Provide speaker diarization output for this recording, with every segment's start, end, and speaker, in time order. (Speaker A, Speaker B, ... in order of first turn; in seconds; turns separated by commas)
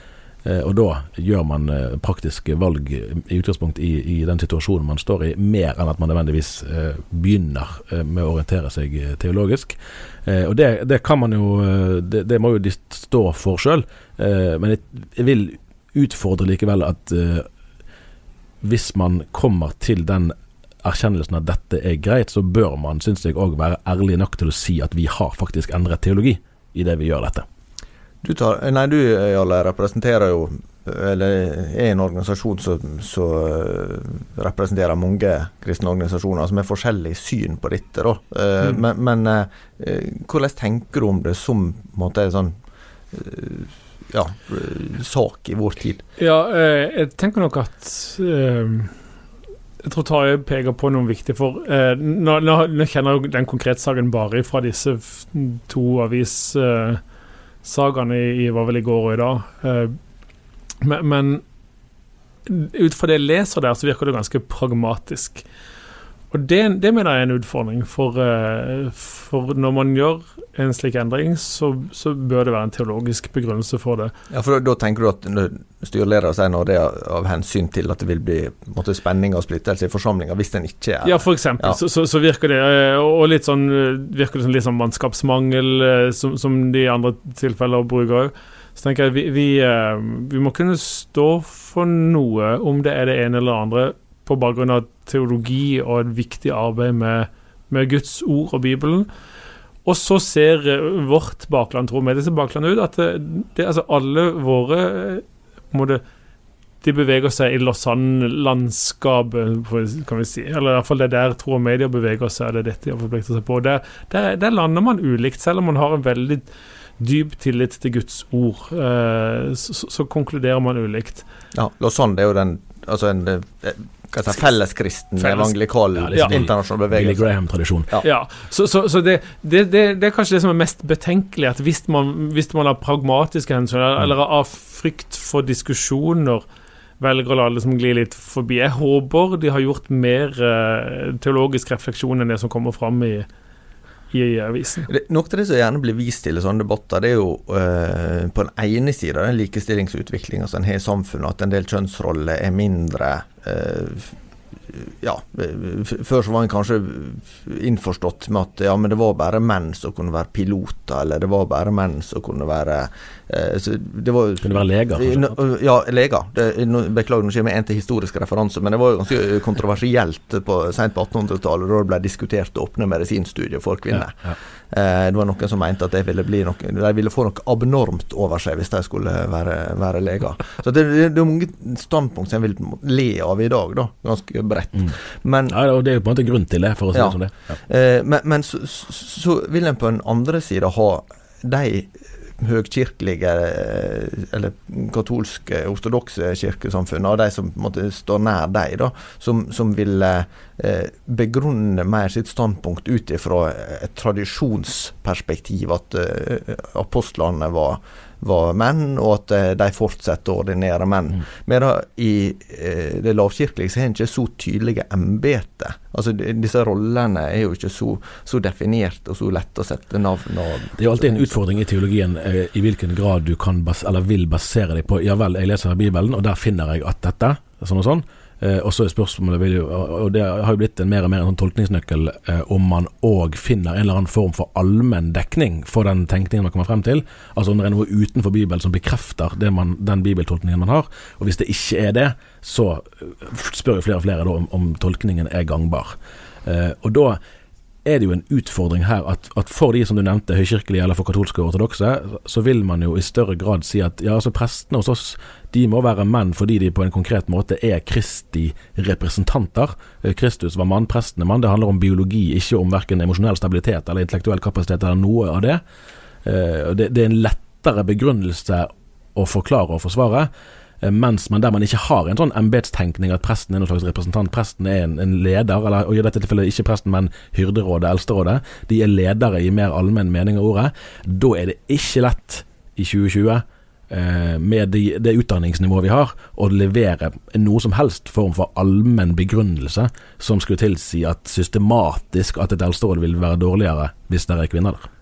Speaker A: 0.5-17.5, Speaker A: 18.6-27.4, Speaker B: 28.2-42.6, Speaker B: 43.1-46.0, Speaker C: 46.2-49.0, Speaker C: 49.8-57.0, Speaker C: 57.6-60.0, Speaker C: 60.8-61.4, Speaker C: 62.5-65.4, Speaker C: 66.3-74.1, Speaker B: 74.3-81.8, Speaker C: 81.0-99.1, Speaker C: 99.8-106.0, Speaker C: 106.8-116.5, Speaker C: 117.0-121.2, Speaker B: 121.5-127.3, Speaker C: 125.2-125.5, Speaker A: 126.0-127.9, Speaker C: 128.0-136.4, Speaker C: 137.0-143.3, Speaker C: 144.1-144.9, Speaker B: 144.9-154.2, Speaker B: 154.7-185.6, Speaker A: 164.4-165.4, Speaker A: 174.0-174.4, Speaker A: 185.5-187.6, Speaker B: 186.9-221.3, Speaker A: 220.8-247.2, Speaker A: 247.8-265.6, Speaker A: 266.2-270.3, Speaker A: 270.8-294.9